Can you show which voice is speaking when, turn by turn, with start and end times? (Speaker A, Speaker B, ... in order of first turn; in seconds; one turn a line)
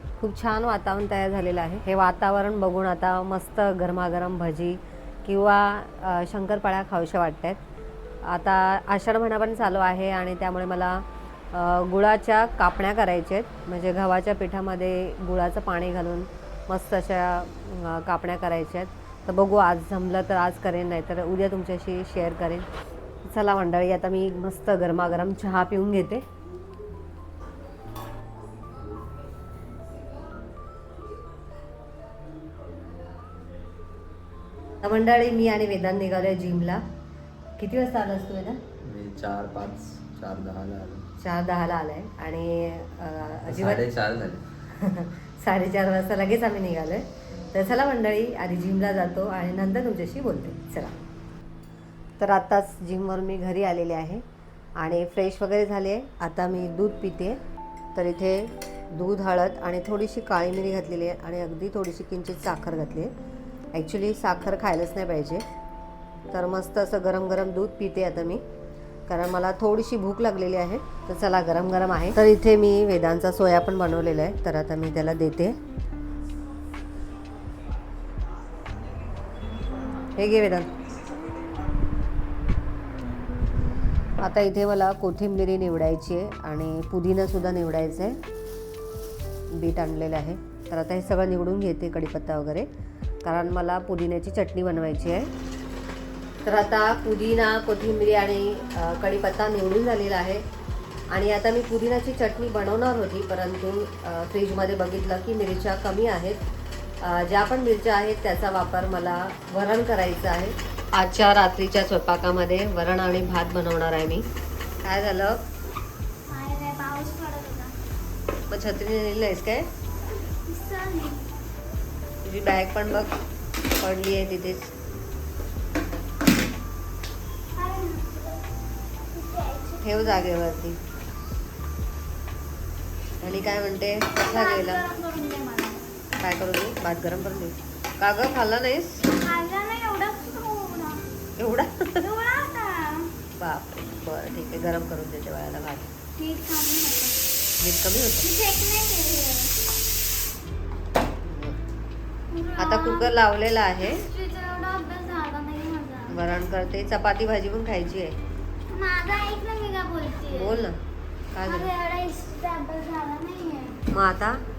Speaker A: 0.2-7.6
Speaker A: 8.2-22.7
Speaker A: 23.2-26.2
Speaker A: 34.8-36.8
Speaker A: 37.6-38.6
Speaker B: 38.8-41.0
Speaker A: 41.2-43.8
Speaker B: 43.5-44.4
Speaker A: 44.7-51.0
Speaker A: 52.2-54.2
Speaker A: 54.8-57.4
Speaker A: 57.9-63.1
Speaker A: 63.7-65.4
Speaker A: 66.3-68.4
Speaker A: 69.1-75.6
Speaker A: 80.0-80.8
Speaker A: 84.2-88.2
Speaker A: 89.5-92.7
Speaker A: 93.2-95.3
Speaker A: 96.4-100.4
Speaker A: 101.1-106.4
Speaker A: 107.0-114.2
Speaker A: 114.8-115.4
Speaker C: 116.3-117.8
Speaker A: 118.5-119.7
Speaker C: 120.5-121.2
Speaker A: 122.2-123.2
Speaker A: 123.8-124.7
Speaker C: 127.5-128.4
Speaker C: 129.1-130.3
Speaker A: 129.8-130.8
Speaker A: 133.2-134.8
Speaker C: 134.2-136.0
Speaker A: 136.2-139.1
Speaker C: 139.1-141.1
Speaker A: 141.4-142.1
Speaker C: 142.0-143.2
Speaker A: 143.3-145.9
Speaker C: 146.2-147.2
Speaker A: 147.6-148.3
Speaker C: 148.2-149.6
Speaker A: 151.2-151.6
Speaker C: 152.3-153.2
Speaker A: 152.6-154.1
Speaker C: 153.8-156.2
Speaker A: 156.1-158.2
Speaker C: 158.7-160.7
Speaker A: 160.3-160.8
Speaker A: 161.3-161.7
Speaker C: 161.4-163.8
Speaker A: 163.9-164.4